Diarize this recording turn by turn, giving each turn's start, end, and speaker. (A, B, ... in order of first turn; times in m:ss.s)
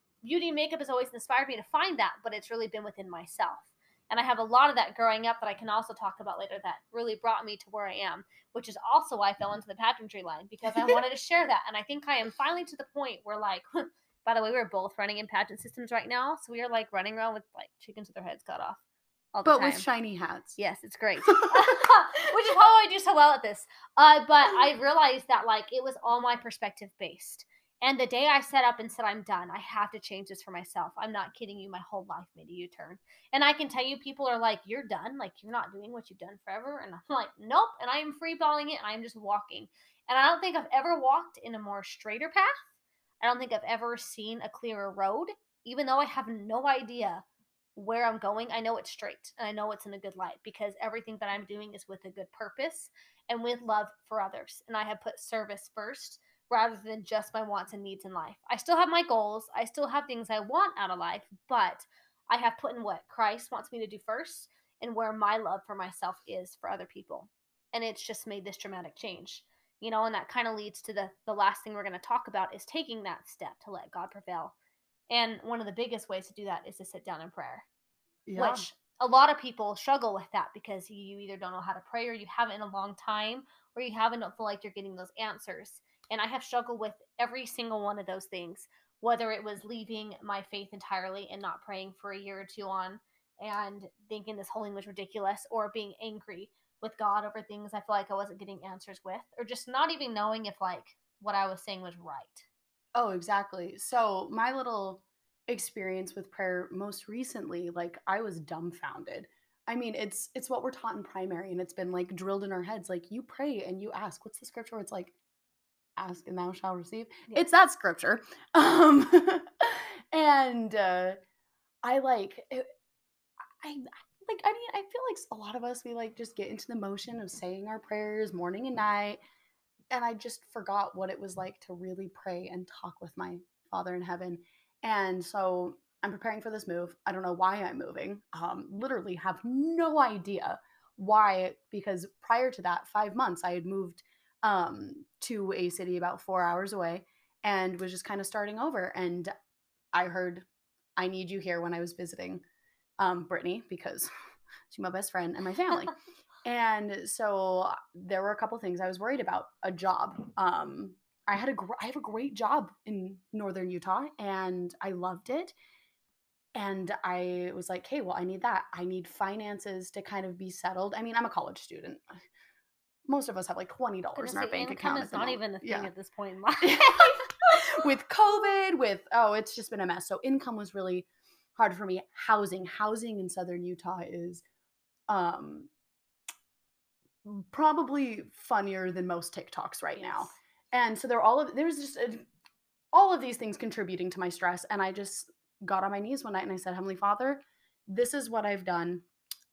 0:00.2-0:18.8 A
0:10.7-0:11.0 B
0:19.3-0:19.9 A
0:19.4-0:20.6 B
0:20.6-0:42.7 A
0:21.3-0:21.8 B
0:43.2-0:47.2 A
0:47.7-1:14.5 A
1:15.1-1:17.6 A
1:18.2-1:18.6 B
1:18.4-1:42.5 A
1:42.9-1:55.1 B
1:56.0-2:01.2 B
2:01.8-2:02.6 B
2:03.6-2:09.2 B
2:09.9-2:29.3 B
2:29.9-2:30.4 B
2:31.0-2:32.4 B
2:33.0-2:34.1 B
2:34.7-2:45.5 B
2:46.5-2:52.0 B
2:53.1-2:55.9 B
2:54.2-2:57.2 A
2:56.6-3:04.4 B
3:05.1-3:05.7 B
3:07.2-3:12.2 B
3:10.0-3:10.3 A
3:12.9-3:19.0 B